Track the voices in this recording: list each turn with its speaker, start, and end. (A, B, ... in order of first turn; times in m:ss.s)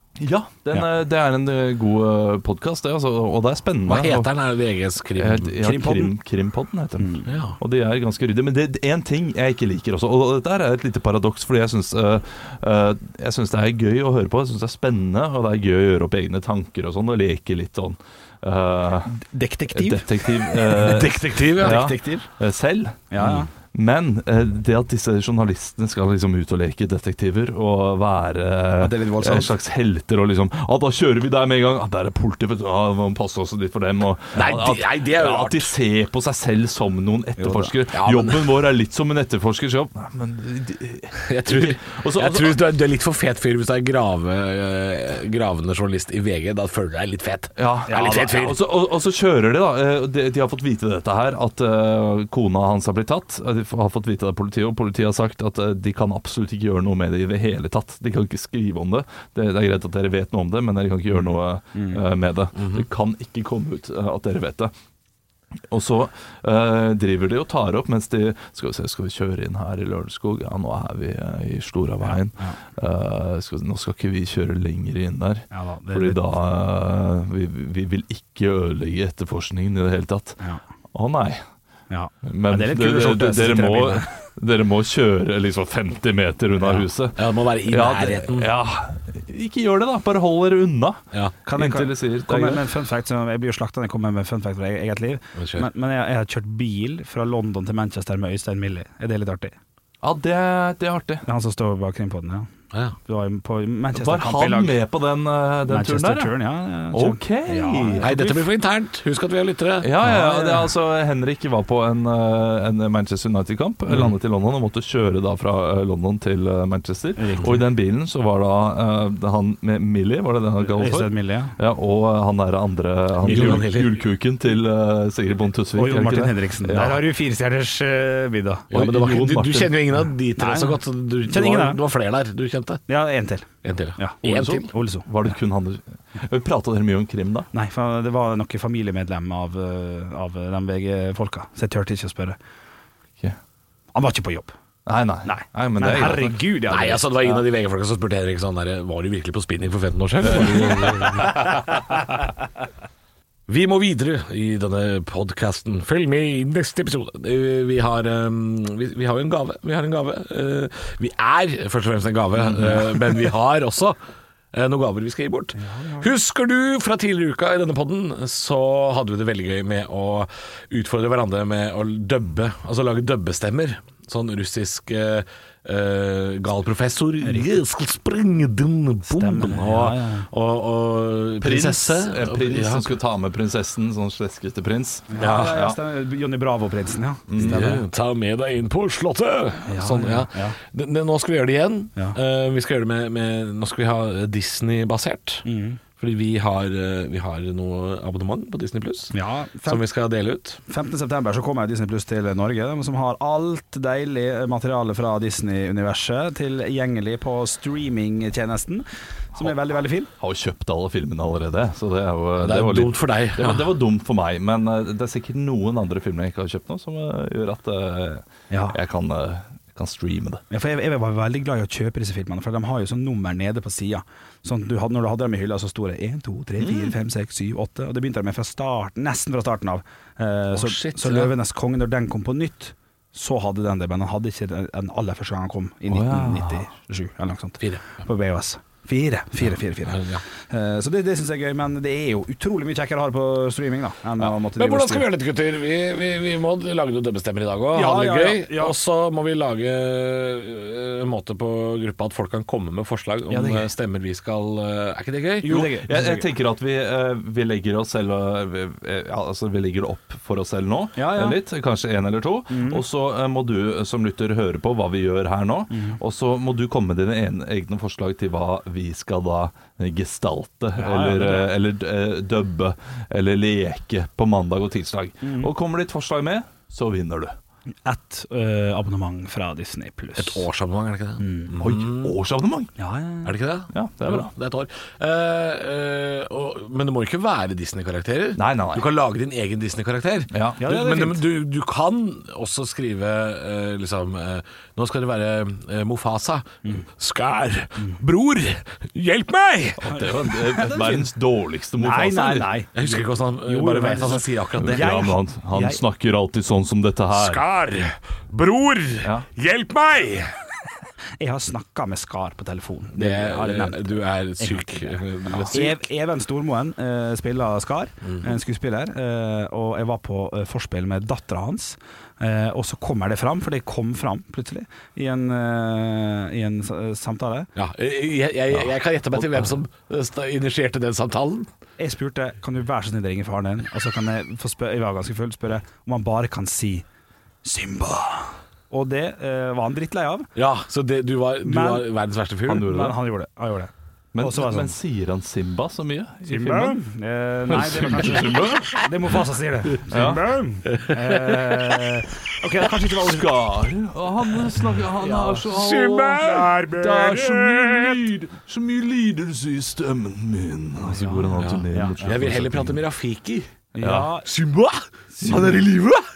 0:00.2-0:04.3 A
0:03.9-0:05.6 B
0:05.2-0:19.1 A
0:05.6-0:06.1 C
0:07.0-0:07.3 C
0:07.2-0:07.6 B
0:19.1-0:20.8 C
0:19.7-0:42.6 A
0:20.7-0:22.2 B
0:23.1-0:23.5 C
0:28.8-0:29.5 C
0:34.3-0:35.7 B
0:37.4-0:37.7 C
0:37.9-0:38.5 B
0:41.2-0:48.6 B
0:47.6-1:04.7 A
0:47.9-0:48.3 C
1:01.7-1:02.0 C
1:02.5-1:02.8 B
1:05.7-1:20.4 A
1:12.0-1:12.6 C
1:15.5-1:16.2 C
1:20.9-1:21.4 A
1:21.9-1:24.1 C
1:22.2-1:31.0 A
1:26.6-1:26.8 C
1:27.2-1:28.5 B
1:31.4-1:39.5 C
1:31.5-1:32.7 A
1:35.4-1:35.7 B
1:40.0-1:41.2 A
1:41.2-1:42.5 C
1:43.0-1:44.8 C
1:43.9-1:46.3 A
1:45.7-1:48.3 C
1:46.9-1:48.2 A
1:48.0-1:49.9 B
1:49.8-2:07.0 A
1:50.0-1:50.7 C
1:57.2-1:57.6 C
2:00.8-2:01.6 C
2:03.2-2:03.9 B
2:05.8-2:08.7 C
2:08.7-2:12.8 B
2:08.7-2:09.8 A
2:10.4-2:11.8 C
2:12.9-2:15.1 C
2:13.6-2:14.7 B
2:14.2-2:17.5 A
2:17.5-2:22.4 C
2:23.9-2:24.5 C
2:24.8-2:26.4 A
2:25.2-2:27.3 C
2:26.7-2:31.6 B
2:30.5-2:31.2 A
2:33.5-2:44.0 B
2:44.5-3:02.9 B
2:45.6-2:46.1 C
2:57.2-2:57.5 C
2:59.1-3:00.3 C
3:01.4-3:05.8 A
3:05.1-3:07.8 C
3:05.2-3:05.5 B
3:07.3-3:07.8 A
3:07.4-3:15.4 B
3:09.7-3:10.6 C
3:15.4-3:15.8 C
3:16.0-3:20.6 B
3:19.1-3:19.8 C
3:20.7-3:30.1 C
3:30.2-3:40.4 A
3:32.4-3:33.7 B
3:38.5-3:38.8 C
3:40.5-4:05.1 C
3:46.6-3:46.9 A
3:50.5-3:51.3 B
3:55.9-3:56.7 A
3:59.8-4:00.2 B
4:04.2-4:15.5 B
4:07.7-4:08.8 C
4:15.4-4:16.3 C
4:15.5-4:37.4 A
4:21.0-4:21.4 C
4:22.5-4:22.8 C
4:25.7-4:26.0 C
4:30.8-4:31.5 C
4:35.2-4:35.5 C
4:37.8-4:40.5 C
4:40.2-4:42.1 B
4:41.2-4:41.5 C
4:41.6-4:42.7 A
4:42.8-4:43.3 C
4:43.2-4:59.9 B
4:43.7-4:44.3 A
4:48.4-4:48.9 A
4:50.3-4:50.6 A
4:50.6-4:51.2 C
4:59.8-5:02.5 A
4:59.9-5:01.1 C
5:01.8-5:05.8 C
5:02.7-5:05.0 B
5:04.6-5:07.4 A
5:07.1-5:10.3 B
5:11.2-5:27.5 C
5:13.0-5:15.8 B
5:18.0-5:18.3 B
5:27.6-5:31.5 B
5:29.1-5:29.5 A
5:31.8-5:36.8 C
5:37.4-5:40.3 C
5:40.4-5:42.8 B
5:41.4-5:41.9 C
5:42.5-5:43.0 A
5:42.5-5:44.7 C
5:44.1-5:46.8 A
5:46.3-5:53.4 C
5:47.5-5:48.7 A
5:49.9-5:50.3 A
5:50.6-5:51.8 B
5:52.9-6:02.8 A
5:55.0-5:56.6 B
5:56.1-5:58.0 C
6:00.8-6:02.1 C
6:01.2-6:03.5 B
6:03.7-6:04.3 C
6:03.8-6:04.1 A
6:04.2-6:06.0 B
6:05.2-6:05.6 C
6:05.2-6:05.7 A